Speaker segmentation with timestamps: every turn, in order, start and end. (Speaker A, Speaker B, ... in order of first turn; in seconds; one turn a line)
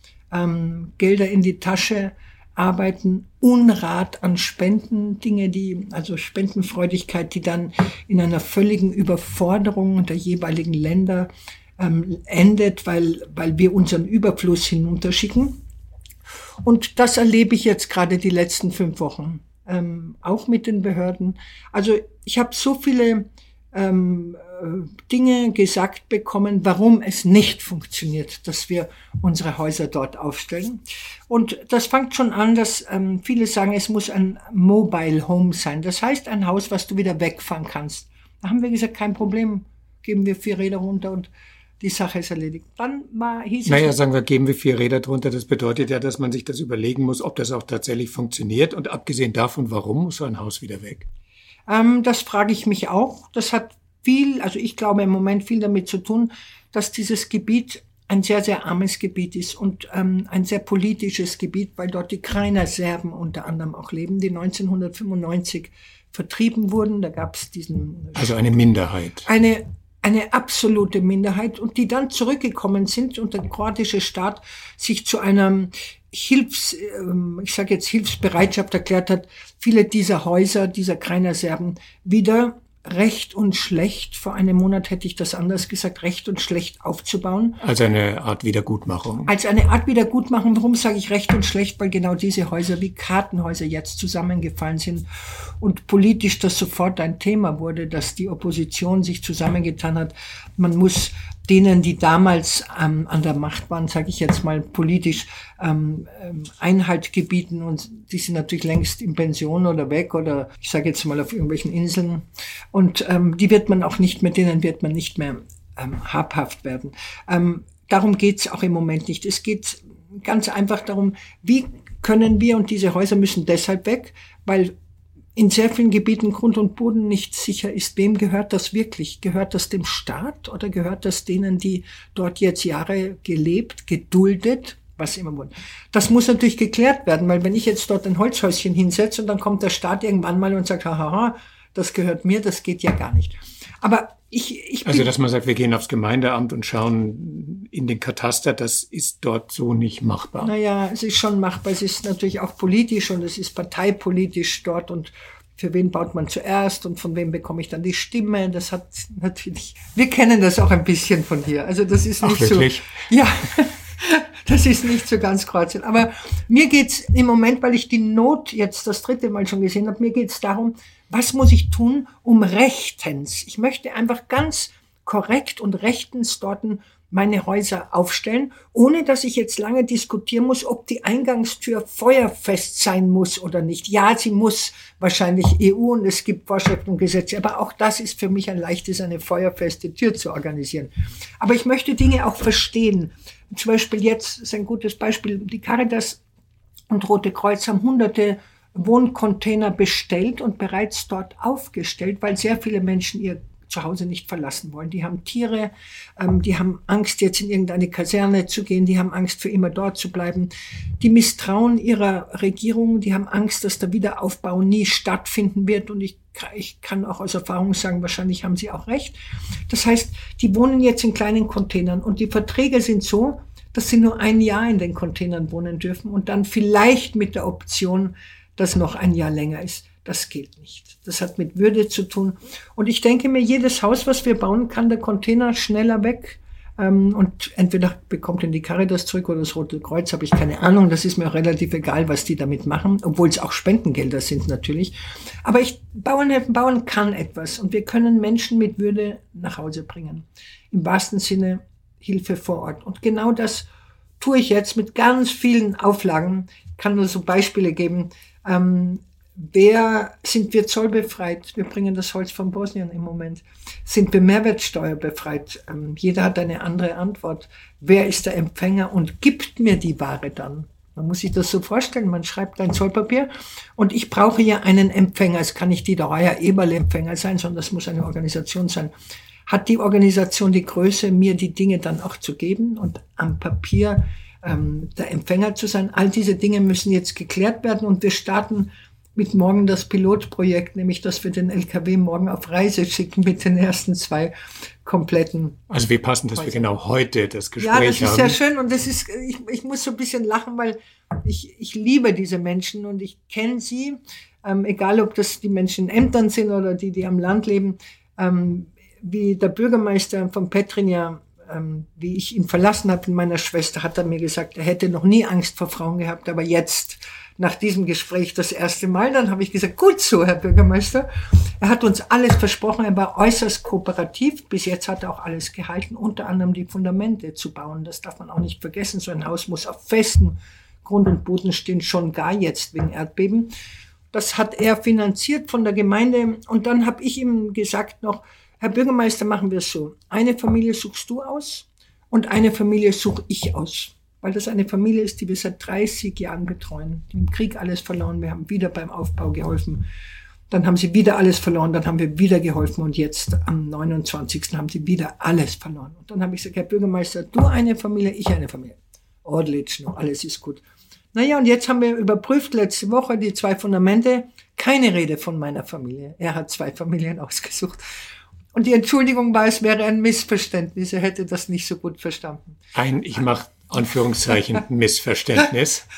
Speaker A: 0.3-15.6
Speaker A: 16.6-41.3
Speaker A: 41.8-44.0
Speaker B: 43.7-51.1
Speaker A: 51.7-68.6
Speaker B: 68.2-69.3
Speaker A: 69.2-87.6
Speaker B: 87.6-89.3
Speaker A: 89.3-124.8
Speaker A: 125.4-145.1
Speaker B: 144.8-150.5
Speaker A: 150.4-196.2
Speaker B: 162.2-163.0
Speaker A: 196.9-219.2
Speaker A: 219.7-253.7
Speaker A: 254.2-278.9
Speaker A: 279.5-295.6
Speaker B: 295.7-298.4
Speaker A: 296.4-296.6
Speaker A: 297.6-333.5
Speaker A: 334.1-349.9
Speaker A: 350.5-360.6
Speaker A: 361.1-367.8
Speaker A: 368.5-372.6
Speaker B: 372.8-375.9